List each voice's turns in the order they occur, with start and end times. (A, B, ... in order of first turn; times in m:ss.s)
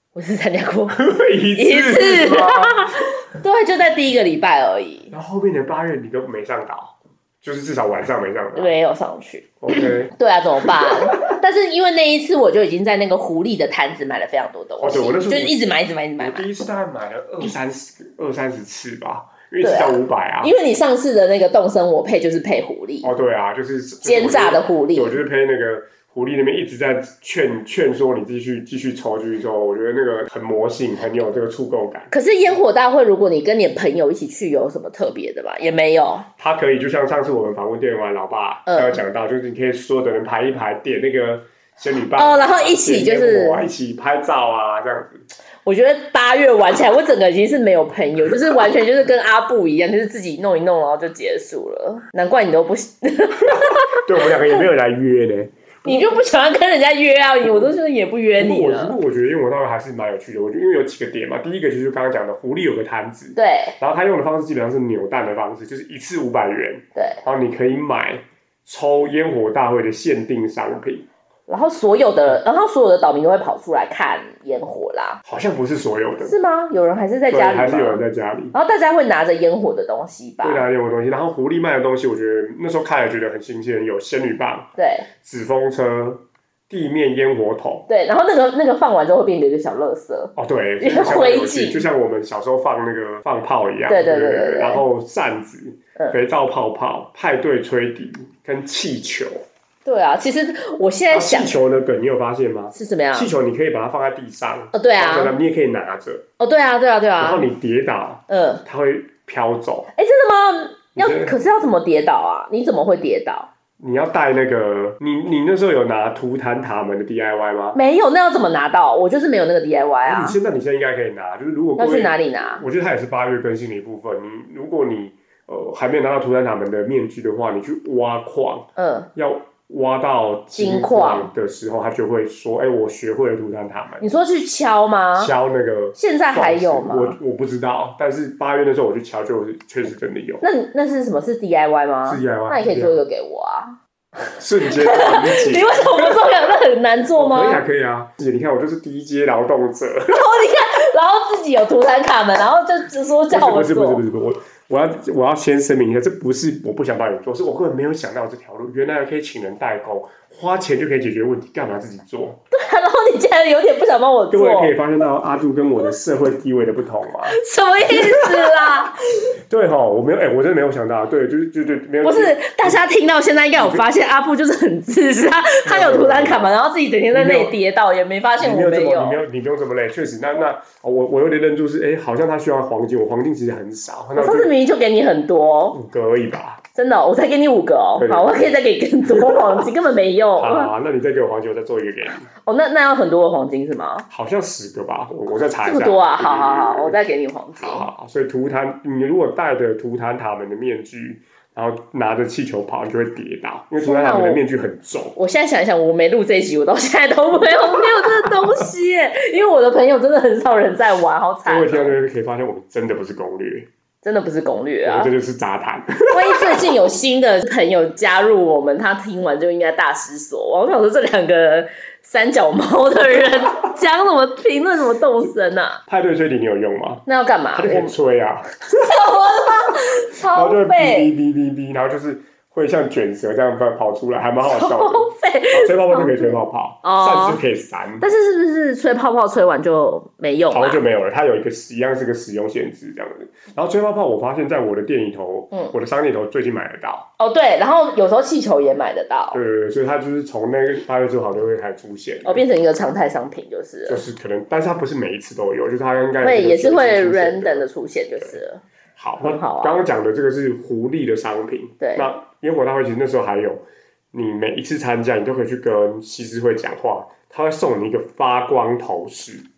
0:00.2-0:01.0 A
0:00.9-0:02.9 B
0:01.6-0:05.1 A
0:05.1-0:08.8 B
0:08.6-0:16.5 A
0:09.6-0:10.1 B
0:10.7-0:11.3 B
0:14.8-0:15.6 B
0:16.2-0:20.5 B
0:19.6-0:23.1 A
0:23.0-0:32.1 B
0:24.0-0:25.2 A
0:32.1-0:36.3 A
0:36.4-0:45.2 B
0:38.7-0:39.0 A
0:42.2-0:43.7 A
0:45.6-0:54.6 A
0:53.5-0:56.1 B
0:55.8-0:59.0 A
0:57.5-0:57.7 B
0:58.4-1:11.1 B
1:03.4-1:03.8 A
1:07.0-1:07.2 A
1:11.5-1:15.2 A
1:15.2-1:16.4 B
1:16.2-1:20.6 A
1:17.3-1:18.6 B
1:20.4-1:24.7 B
1:24.8-1:25.1 A
1:25.2-1:27.9 B
1:27.9-1:31.9 A
1:30.4-1:39.4 B
1:33.9-1:34.8 A
1:39.8-1:41.6 A
1:41.1-1:46.2 B
1:42.7-1:43.3 A
1:44.7-1:45.4 A
1:46.4-1:47.5 A
1:47.2-1:49.9 B
1:48.3-1:48.6 A
1:50.0-1:53.5 A
1:51.0-1:51.4 B
1:53.8-1:57.8 B
1:57.7-2:00.4 A
2:00.0-2:14.1 B
2:01.8-2:02.6 A
2:08.8-2:09.1 A
2:10.6-2:11.3 A
2:14.0-2:15.3 A
2:15.2-2:20.4 B
2:16.0-2:17.2 A
2:20.4-2:23.8 A
2:22.1-2:23.0 B
2:24.4-2:26.2 B
2:24.6-2:27.6 A
2:27.2-2:30.2 B
2:30.1-2:34.0 A
2:33.3-2:42.4 B
2:42.5-2:44.7 A
2:44.3-2:47.4 B
2:47.3-2:49.0 A
2:47.9-2:48.3 B
2:49.5-2:52.8 B
2:52.0-2:59.2 A
2:53.6-2:53.8 B
2:55.6-2:56.5 B
2:57.1-2:57.6 B
2:58.4-3:04.5 B
3:04.2-3:05.8 A
3:05.7-3:06.6 B
3:06.8-3:10.7 A
3:08.0-3:08.6 B
3:09.1-3:09.7 B
3:10.4-3:12.3 B
3:12.4-3:14.1 A
3:14.1-3:17.0 B
3:15.6-3:17.9 A
3:17.6-3:25.2 B
3:23.8-3:24.4 A
3:25.2-3:32.0 A
3:27.8-3:28.4 B
3:31.4-3:33.7 B
3:34.0-3:35.1 A
3:34.8-3:36.7 B
3:36.1-3:45.8 A
3:45.9-3:48.9 B
3:47.1-3:48.0 A
3:48.8-3:51.1 A
3:50.3-3:58.1 B
3:54.4-3:57.4 A
3:58.0-4:00.8 A
4:00.5-4:07.1 B
4:07.2-4:09.4 A
4:09.3-4:12.4 B
4:12.2-4:14.0 A
4:13.9-4:17.7 B
4:16.2-4:18.6 A
4:19.0-4:29.5 B
4:19.2-4:19.8 A
4:21.8-4:22.1 A